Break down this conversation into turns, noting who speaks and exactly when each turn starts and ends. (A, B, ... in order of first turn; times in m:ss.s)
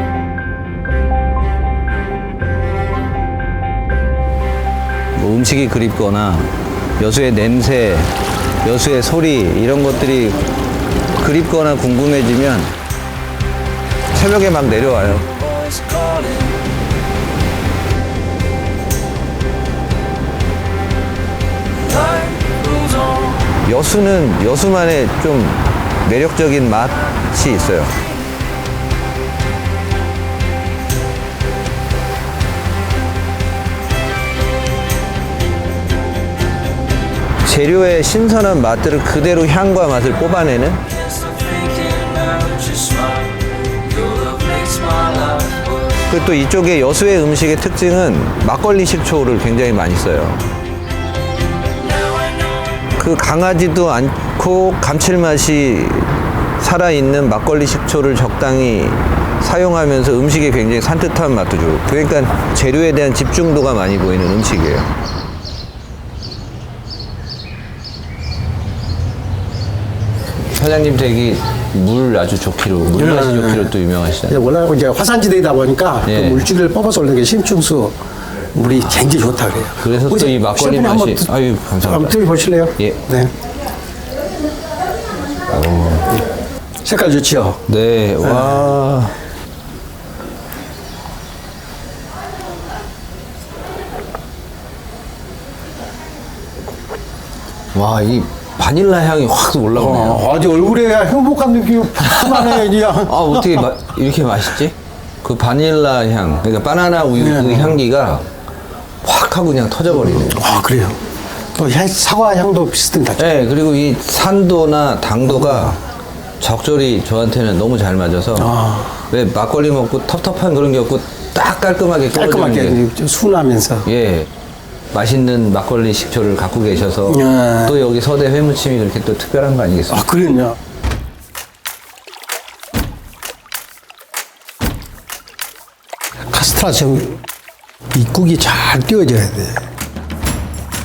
0:05.1-0:10.4 A
0:11.2-0:12.8 A
0:14.1-0:16.5 A
0:23.5-0:28.0 A
0:37.4-0:42.9 A
0:44.1-0:50.4 A
0:52.2-1:04.9 A
1:10.5-1:14.4 A
1:12.9-1:13.7 B
1:14.3-1:18.0 B
1:16.0-1:16.4 A
1:18.5-1:21.3 B
1:19.8-1:22.2 A
1:21.8-1:23.3 B
1:25.5-1:26.2 A
1:26.8-1:27.6 B
1:27.7-1:29.1 A
1:28.2-1:28.8 B
1:37.7-1:40.3 A
1:39.7-1:43.6 B
1:42.2-1:48.2 A
1:47.2-1:47.8 B
1:49.0-1:50.4 A
1:50.2-1:51.0 B
1:51.5-1:53.3 B
1:53.2-1:55.8 A
1:56.4-1:58.6 A
1:58.4-1:59.0 B
1:59.1-2:02.8 A
2:02.1-2:03.9 B
2:03.8-2:04.3 A
2:04.9-2:10.1 A
2:07.1-2:07.8 B
2:09.9-2:10.6 B
2:16.3-2:17.2 B
2:17.9-2:19.7 B